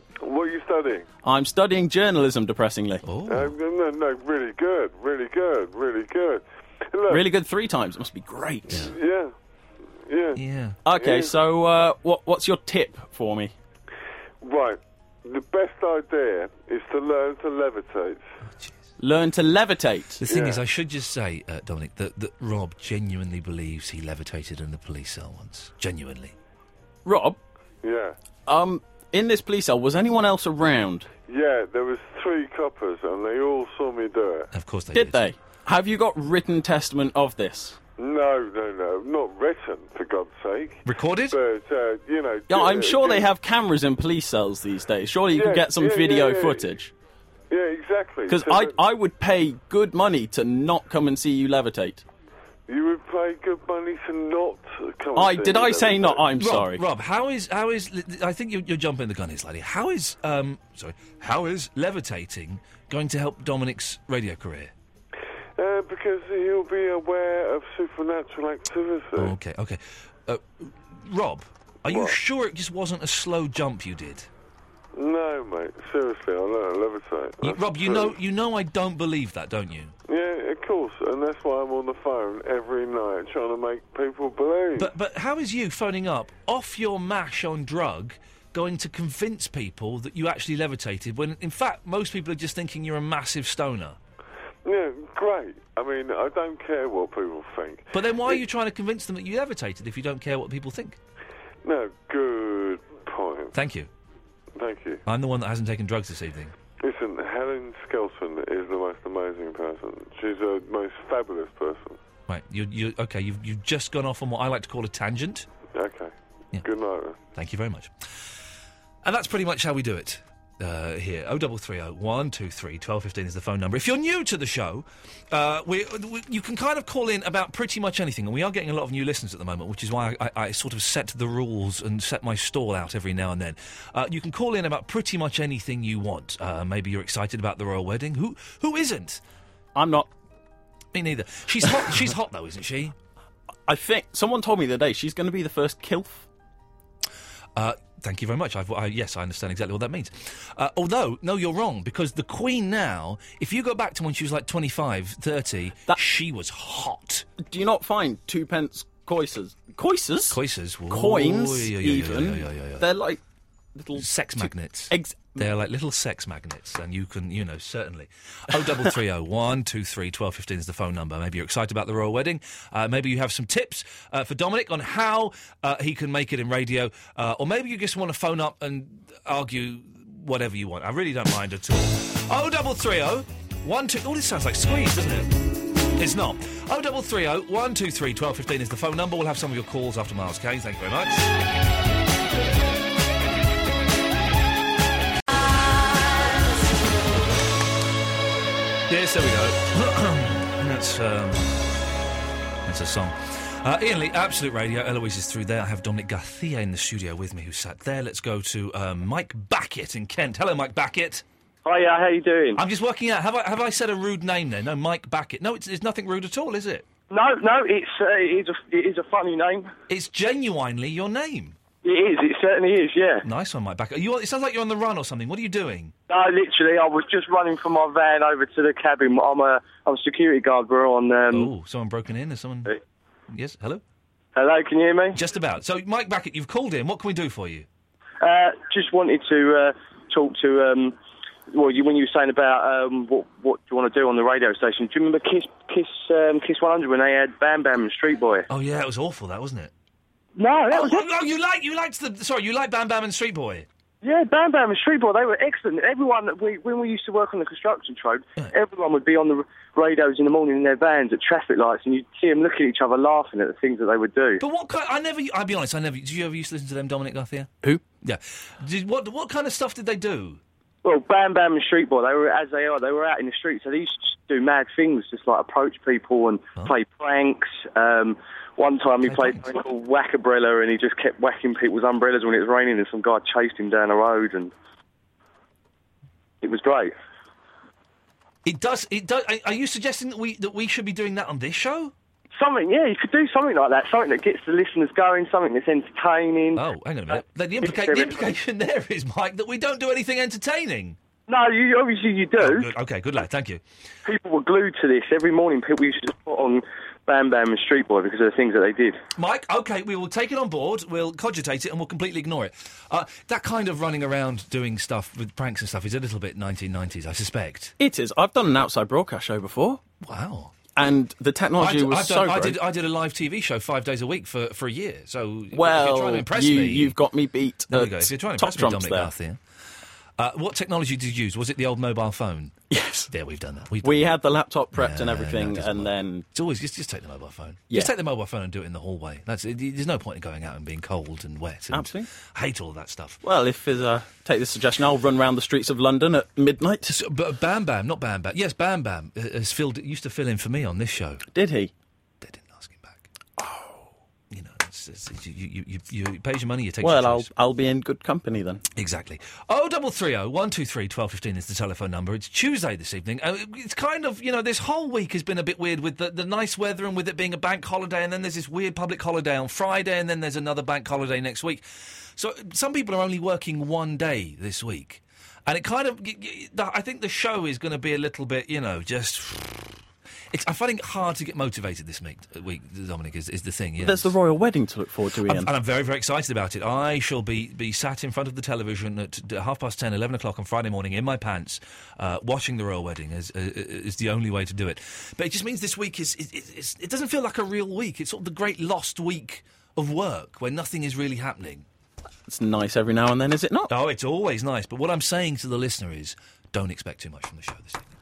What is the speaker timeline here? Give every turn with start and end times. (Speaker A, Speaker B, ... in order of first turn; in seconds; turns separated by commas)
Speaker A: 0.2-1.1, Speaker B: 1.2-3.0, Speaker C: 3.0-3.5, Speaker A: 3.3-7.2, Speaker B: 7.1-8.9, Speaker A: 8.7-9.3, Speaker A: 10.1-10.4, Speaker C: 10.3-10.8, Speaker B: 10.8-13.5, Speaker A: 10.9-11.3, Speaker A: 14.4-18.2, Speaker C: 18.6-18.9, Speaker B: 19.0-20.2, Speaker C: 20.2-26.3, Speaker A: 20.3-20.6, Speaker B: 27.0-27.4, Speaker A: 27.8-28.1, Speaker B: 28.4-31.1, Speaker A: 31.2-34.5, Speaker C: 34.5-35.2, Speaker B: 34.9-37.8, Speaker A: 38.0-43.3, Speaker C: 40.8-41.4, Speaker B: 42.5-46.9, Speaker A: 45.3-46.7, Speaker A: 47.5-48.8, Speaker B: 48.3-52.0, Speaker A: 52.7-56.3, Speaker B: 55.1-56.8, Speaker C: 56.4-64.7, Speaker A: 65.6-69.3, Speaker C: 69.2-74.3, Speaker A: 71.9-72.1, Speaker A: 74.9-78.1, Speaker C: 77.4-79.9, Speaker A: 80.1-84.9, Speaker C: 84.8-94.0, Speaker A: 94.6-97.9, Speaker C: 97.9-101.0, Speaker A: 101.6-103.5, Speaker C: 103.5-103.9, Speaker A: 104.5-105.0, Speaker C: 105.0-106.5, Speaker A: 106.8-112.0, Speaker C: 112.3-115.5, Speaker A: 115.7-117.2, Speaker C: 117.3-117.9, Speaker C: 119.0-139.2, Speaker B: 139.7-140.1, Speaker C: 140.9-142.9, Speaker B: 143.7-146.3, Speaker C: 147.5-157.3, Speaker B: 157.4-160.4, Speaker C: 160.3-162.9, Speaker B: 160.9-163.2, Speaker B: 163.7-165.4, Speaker C: 163.9-185.3, Speaker C: 185.9-191.3, Speaker C: 198.9-201.6, Speaker C: 202.6-211.2, Speaker D: 211.6-212.6, Speaker C: 212.6-216.8, Speaker D: 217.1-219.7, Speaker C: 219.9-221.6, Speaker D: 221.8-223.2, Speaker C: 223.2-225.9, Speaker D: 226.1-231.5, Speaker C: 231.3-232.7, Speaker C: 233.3-233.8, Speaker D: 234.3-235.2, Speaker C: 235.1-237.7, Speaker D: 238.2-240.9, Speaker D: 241.5-248.5, Speaker C: 248.5-249.7, Speaker D: 250.4-251.1, Speaker C: 250.7-253.7, Speaker D: 254.0-264.4, Speaker C: 264.4-270.4, Speaker D: 270.8-284.5, Speaker C: 279.0-279.5, Speaker D: 286.4-286.9, Speaker C: 288.4-291.9, Speaker D: 292.4-296.6, Speaker C: 296.5-301.0, Speaker D: 297.6-298.2, Speaker D: 301.3-302.7, Speaker C: 302.4-303.6, Speaker D: 304.0-309.0, Speaker C: 309.1-317.7, Speaker B: 317.8-319.8, Speaker C: 320.0-320.5, Speaker B: 320.7-322.6, Speaker C: 321.6-326.9, Speaker B: 325.5-329.1, Speaker C: 327.7-329.4, Speaker C: 330.2-332.6, Speaker B: 332.7-333.1, Speaker C: 333.1-334.1, Speaker B: 333.8-336.2, Speaker C: 334.7-343.2, Speaker B: 341.7-342.1, Speaker B: 343.2-346.9, Speaker C: 346.9-351.2, Speaker B: 351.3-351.7, Speaker C: 352.2-353.0, Speaker B: 353.4-353.9, Speaker C: 354.3-357.3, Speaker B: 356.8-358.6, Speaker C: 358.7-379.8, Speaker C: 380.3-384.1, Speaker B: 383.8-385.5, Speaker C: 385.2-401.6, Speaker B: 402.3-403.7, Speaker C: 403.7-407.8